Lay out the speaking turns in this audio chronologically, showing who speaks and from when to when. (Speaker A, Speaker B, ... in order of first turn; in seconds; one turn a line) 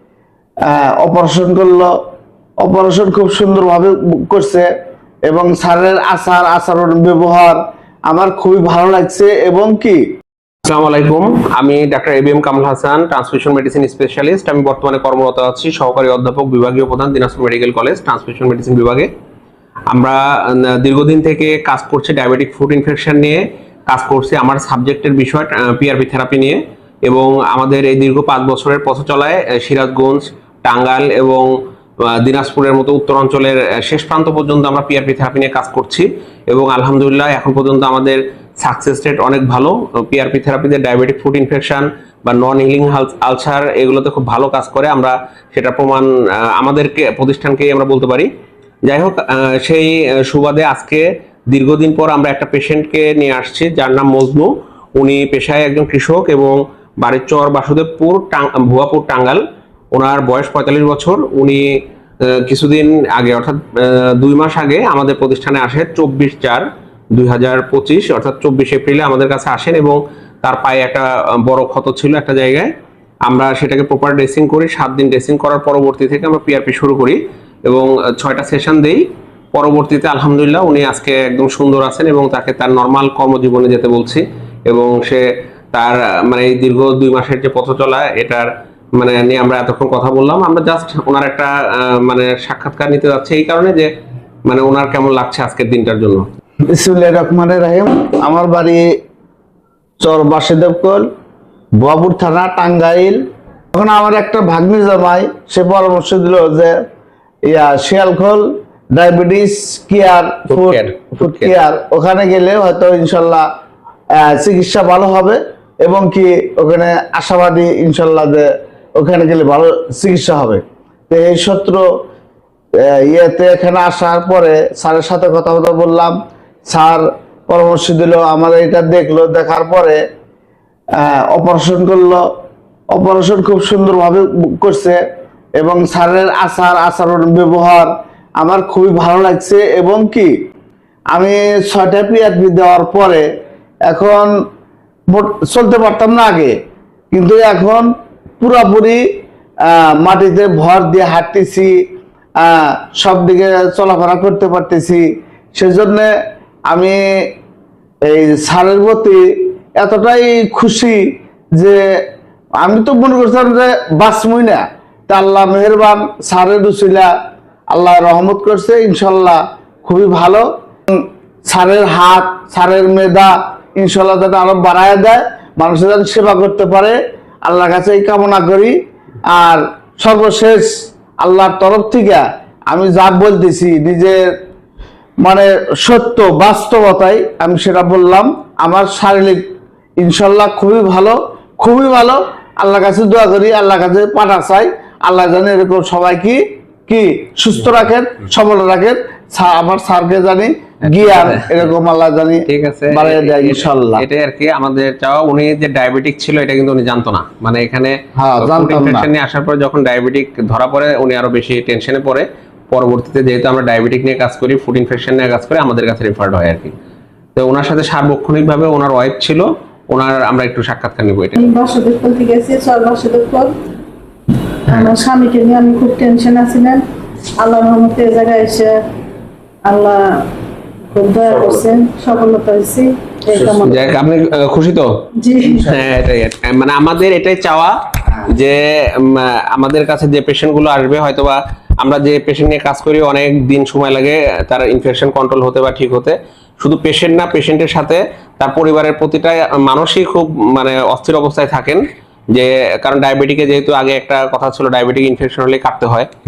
Speaker A: 0.7-1.9
Speaker A: 2.6-4.7
Speaker A: 5.3-10.0
Speaker B: 10.7-19.1
Speaker B: 19.9-31.5
Speaker B: 32.0-48.3
Speaker B: 48.9-59.4
Speaker B: 59.9-72.7
Speaker B: 73.3-79.0
Speaker B: 79.5-93.9
Speaker B: 94.5-96.3
Speaker A: 96.7-98.9
Speaker A: 100.0-101.1
Speaker A: 101.8-103.2
Speaker A: 103.7-106.7
Speaker A: 107.5-113.5
Speaker B: 110.5-111.5
Speaker A: 114.2-121.8
Speaker A: 123.0-126.2
Speaker A: 126.7-130.0
Speaker A: 131.0-132.2
Speaker A: 132.9-135.0
Speaker A: 135.6-140.3
Speaker A: 141.1-143.2
Speaker A: 143.9-144.3
Speaker A: 145.1-146.5
Speaker A: 147.1-147.9
Speaker A: 148.4-149.0
Speaker A: 149.7-151.7
Speaker A: 152.4-155.0
Speaker A: 155.6-156.1
Speaker A: 156.7-157.3
Speaker A: 158.1-159.2
Speaker A: 159.8-161.0
Speaker A: 161.6-161.8
Speaker A: 162.6-167.1
Speaker A: 167.7-178.8
Speaker A: 179.3-180.7
Speaker A: 181.2-184.2
Speaker A: 185.2-189.4
Speaker A: 190.0-204.0
Speaker B: 200.8-201.7
Speaker B: 202.5-216.7
Speaker A: 208.2-209.1
Speaker B: 217.4-221.5
Speaker C: 221.4-223.5
Speaker C: 224.7-226.8
Speaker C: 227.4-228.8
Speaker C: 229.7-230.2
Speaker C: 230.9-233.8
Speaker B: 233.3-234.9
Speaker C: 235.2-235.8
Speaker B: 235.5-251.8
Speaker B: 252.3-256.1